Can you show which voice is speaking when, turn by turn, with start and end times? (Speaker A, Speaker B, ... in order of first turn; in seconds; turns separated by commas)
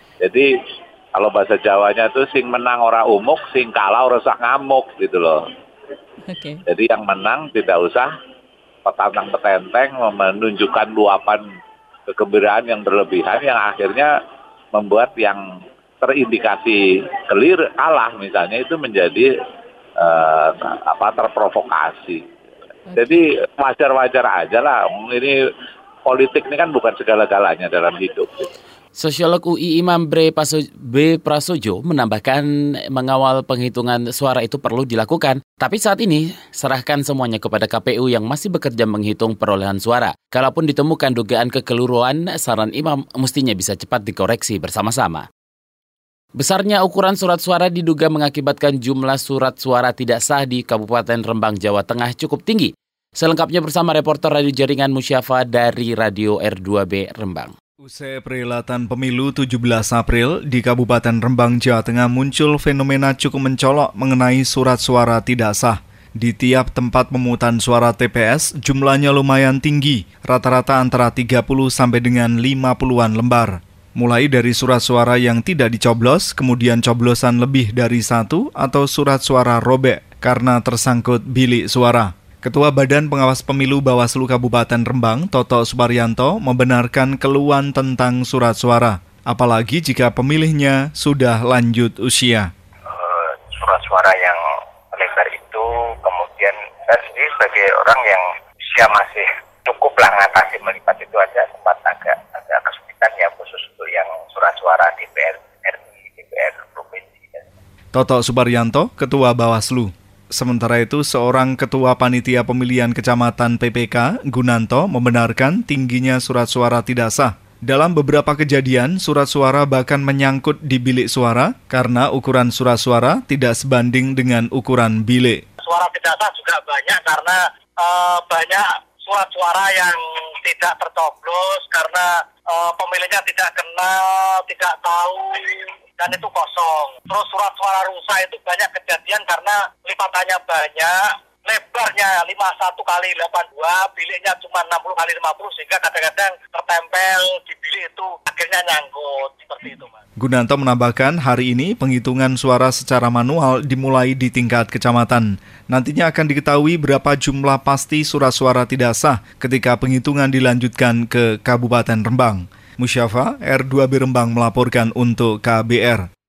Speaker A: 0.2-0.5, Speaker A: 1.1-5.4, Speaker A: 6.7-8.1, Speaker A: 8.8-11.4, Speaker A: 12.1-14.1, Speaker A: 14.7-15.4, Speaker A: 16.0-19.3, Speaker A: 20.0-22.2, Speaker A: 23.0-25.4, Speaker A: 26.1-28.5, Speaker B: 29.0-45.3, Speaker B: 46.4-57.5, Speaker C: 57.8-92.5, Speaker D: 92.9-94.4, Speaker D: 94.9-107.4, Speaker C: 107.9-125.4, Speaker E: 125.6-140.9, Speaker E: 141.5-150.0, Speaker C: 150.2-166.0